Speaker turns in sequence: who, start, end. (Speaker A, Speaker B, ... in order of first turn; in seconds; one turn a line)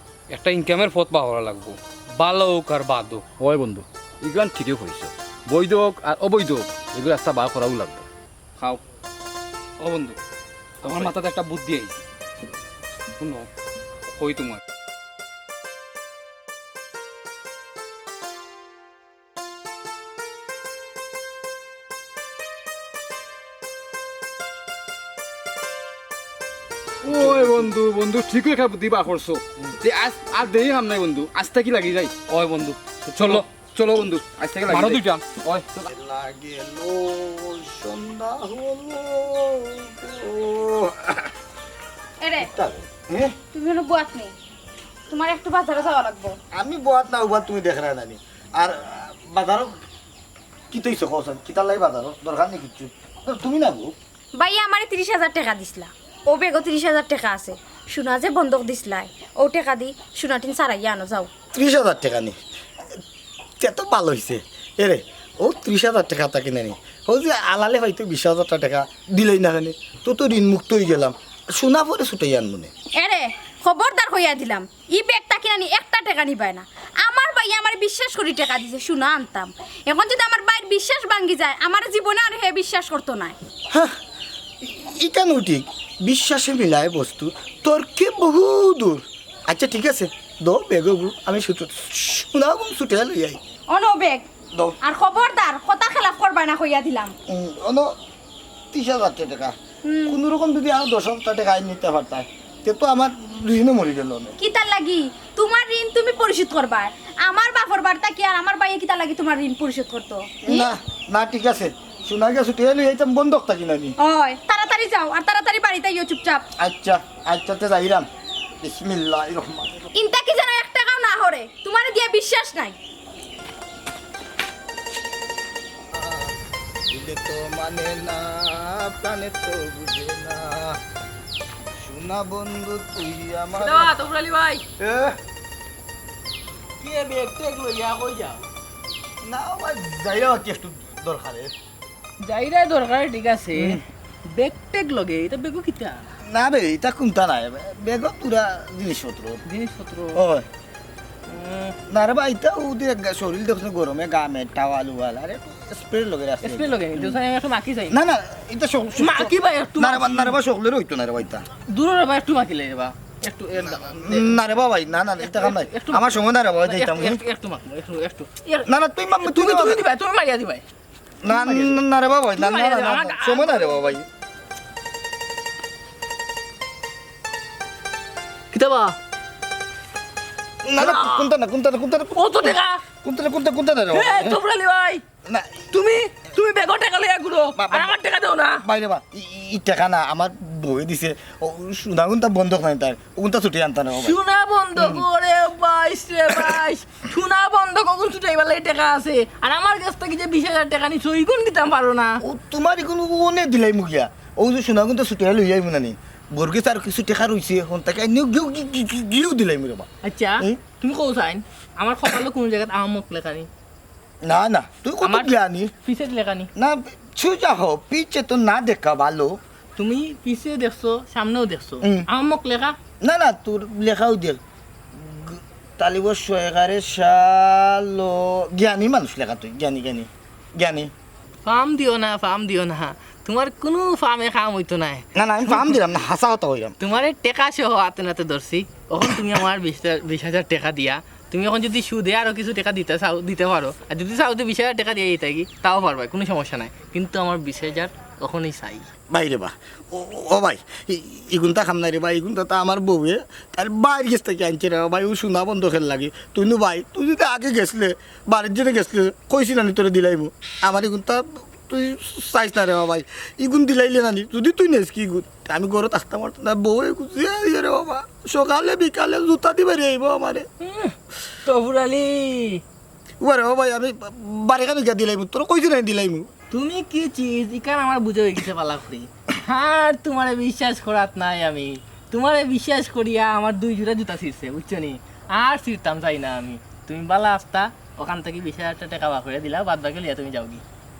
Speaker A: 0.3-3.2
Speaker B: 3.4-8.1
Speaker A: 9.8-10.2
Speaker B: 10.8-12.0
Speaker A: 10.8-11.4
Speaker B: 13.2-13.5
Speaker A: 14.2-14.6
Speaker B: 27.0-32.1
Speaker A: 27.2-27.5
Speaker A: 32.3-34.0
Speaker B: 33.1-35.0
Speaker A: 34.7-35.6
Speaker C: 35.8-41.3
Speaker D: 42.2-42.5
Speaker C: 42.4-43.3
Speaker D: 43.5-44.3
Speaker D: 45.1-46.4
Speaker C: 46.5-49.7
Speaker C: 50.7-53.9
Speaker D: 54.4-61.3
Speaker C: 61.5-62.4
Speaker C: 63.6-72.7
Speaker D: 73.0-83.4
Speaker C: 84.6-93.4
Speaker D: 93.7-94.2
Speaker D: 94.8-97.1
Speaker C: 97.3-97.9
Speaker C: 98.7-99.5
Speaker D: 99.8-100.2
Speaker C: 100.1-104.3
Speaker D: 104.4-110.7
Speaker C: 110.4-113.9
Speaker D: 114.0-116.4
Speaker C: 116.6-118.1
Speaker C: 118.6-119.8
Speaker D: 119.9-122.8
Speaker C: 126.0-126.3
Speaker C: 126.9-130.8
Speaker C: 131.8-133.9
Speaker E: 133.6-134.6
Speaker C: 134.8-135.2
Speaker E: 136.8-138.4
Speaker C: 139.2-141.5
Speaker E: 142.2-146.1
Speaker C: 143.5-143.8
Speaker C: 146.2-149.4
Speaker E: 149.5-150.2
Speaker C: 150.1-150.5
Speaker E: 151.2-151.8
Speaker C: 151.9-157.2
Speaker E: 156.4-158.0
Speaker C: 157.9-161.4
Speaker E: 158.9-160.4
Speaker E: 161.7-164.4
Speaker C: 163.6-167.2
Speaker E: 165.2-170.6
Speaker C: 168.7-169.8
Speaker C: 171.2-174.1
Speaker E: 171.3-171.8
Speaker E: 172.3-173.9
Speaker E: 178.5-178.9
Speaker C: 180.6-184.4
Speaker E: 180.8-181.3
Speaker E: 182.1-182.8
Speaker E: 183.9-185.0
Speaker C: 185.3-185.7
Speaker E: 185.7-188.6
Speaker C: 187.6-187.9
Speaker C: 188.6-194.2
Speaker E: 193.9-202.2
Speaker C: 194.8-195.0
Speaker C: 202.2-209.9
Speaker E: 210.0-213.5
Speaker C: 214.2-215.7
Speaker E: 215.0-216.5
Speaker C: 216.6-219.4
Speaker E: 219.8-222.8
Speaker C: 223.0-224.4
Speaker C: 224.9-230.9
Speaker E: 231.4-235.8
Speaker C: 235.1-236.8
Speaker E: 236.8-248.9
Speaker C: 249.1-270.5
Speaker E: 270.6-272.6
Speaker C: 273.2-276.3
Speaker E: 276.5-290.6